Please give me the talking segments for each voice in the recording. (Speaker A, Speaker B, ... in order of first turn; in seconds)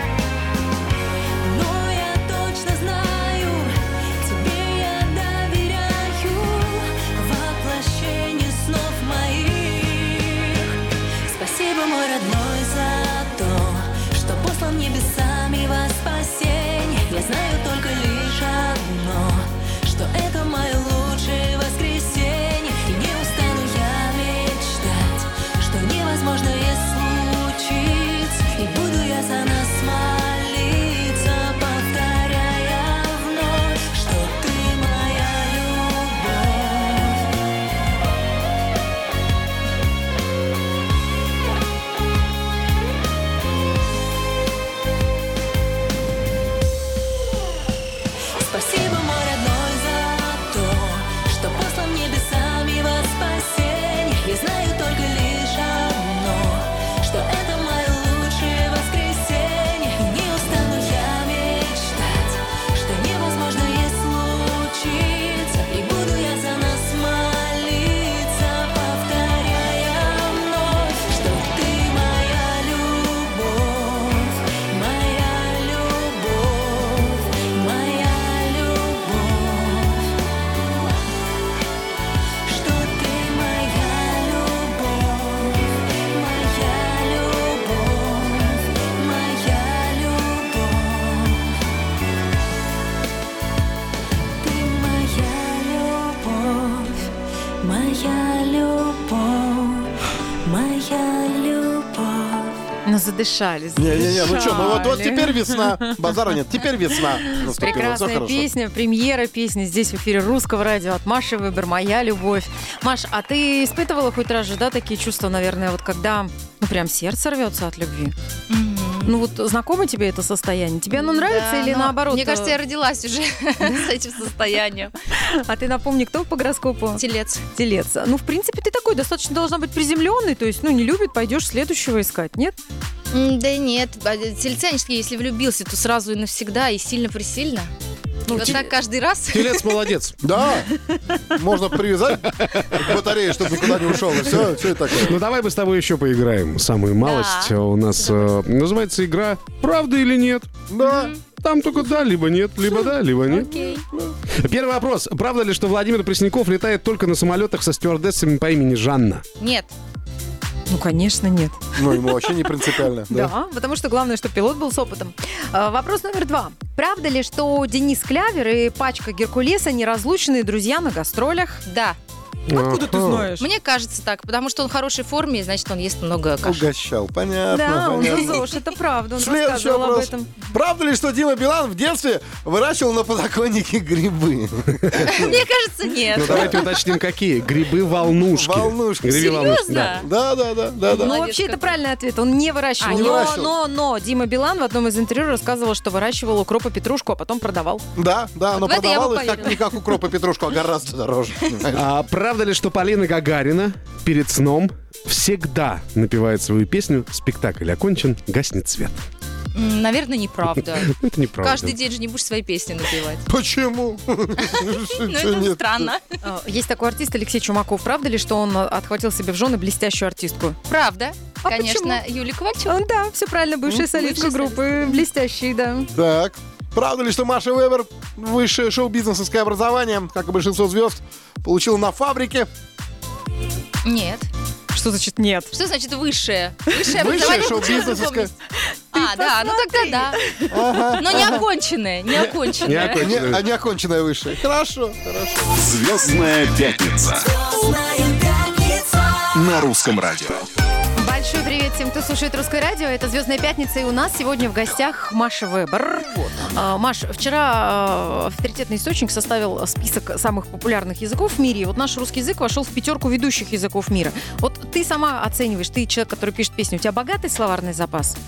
Speaker A: 1.4-37.3, 48.4-80.1, 82.5-91.6, 94.4-102.6
Speaker B: 102.8-106.0, 107.3-118.1, 119.0-122.6, 125.1-132.5, 138.3-138.6, 160.7-162.1, 162.7-171.6, 172.5-173.4, 177.5-180.3, 190.9-197.8, 216.2-220.6, 221.4-222.0, 222.7-225.9, 234.7-235.5, 237.0-237.7, 238.9-241.0, 250.9-268.2
Speaker C: 103.8-108.5, 140.2-140.7, 141.3-145.2, 150.7-151.1, 161.8-163.3, 176.4-178.5, 179.1-185.3, 186.2-186.6, 188.2-191.1, 192.8-193.6, 197.9-201.8, 213.2-215.9, 225.9-232.5, 236.9-238.3, 240.5-241.4, 243.0-245.6
Speaker D: 118.5-119.2, 120.9-124.9, 126.9-127.4, 133.1-137.7, 138.3-139.8, 147.0-148.2, 150.8-151.2, 152.7-153.8, 159.4-159.7, 171.7-172.0, 173.4-176.6, 185.0-186.6, 189.0-190.1, 190.9-191.8, 192.8-193.4, 198.5-199.6, 209.5-210.9, 211.4-213.2, 214.4-216.1, 220.7-222.7, 223.7-225.0, 233.8-234.3, 235.5-238.3, 238.9-240.2, 241.0-243.1
Speaker E: 138.3-138.6, 139.3-140.2, 142.4-142.7, 143.6-144.4, 144.9-150.5, 151.4-153.5, 154.4-159.2, 172.5-173.3, 186.1-190.0, 201.7-209.0, 210.7-211.8, 242.6-243.4
Speaker F: 245.8-247.2, 249.4-250.3